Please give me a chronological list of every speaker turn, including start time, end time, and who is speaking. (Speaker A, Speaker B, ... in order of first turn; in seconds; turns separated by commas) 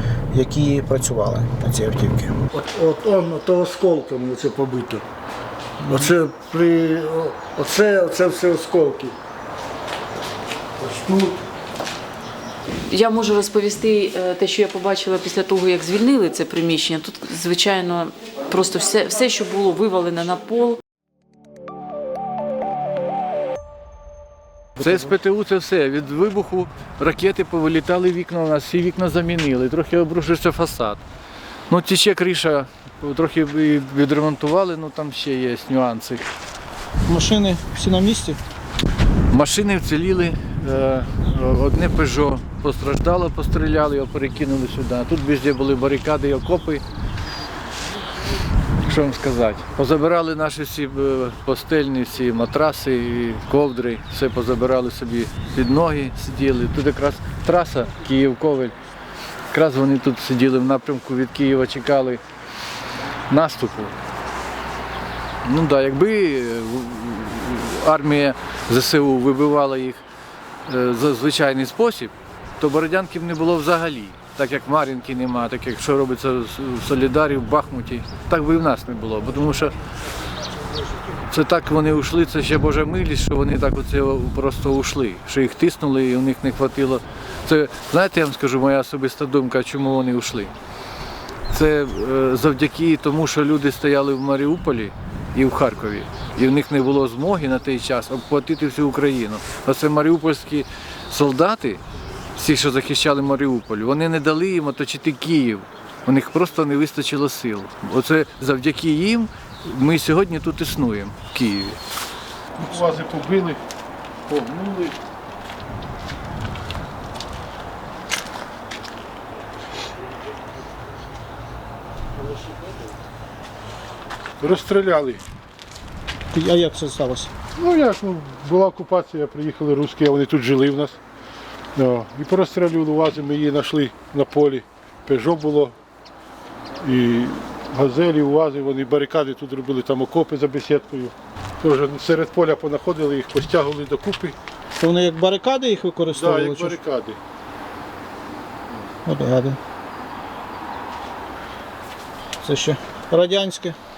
Speaker A: 0.3-2.3, Speaker B: 2.5-5.0, Speaker B: 5.8-9.1, Speaker B: 10.8-11.4, Speaker C: 12.9-20.8, Speaker D: 24.8-31.0, Speaker D: 31.7-36.3, Speaker A: 37.1-38.4, Speaker D: 39.3-46.8, Speaker D: 48.8-58.7, Speaker D: 59.5-62.2, Speaker D: 63.3-63.9, Speaker D: 65.4-70.0, Speaker D: 70.7-79.7, Speaker D: 81.3-90.5, Speaker D: 91.5-101.8, Speaker D: 102.3-111.8, Speaker E: 112.6-113.6, Speaker D: 114.3-114.9, Speaker E: 124.4-125.2, Speaker A: 126.3-127.3, Speaker E: 127.6-131.0, Speaker E: 131.8-135.8, Speaker E: 136.8-144.4, Speaker A: 144.8-146.8, Speaker E: 146.1-147.2, Speaker A: 149.0-149.6, Speaker A: 152.4-153.8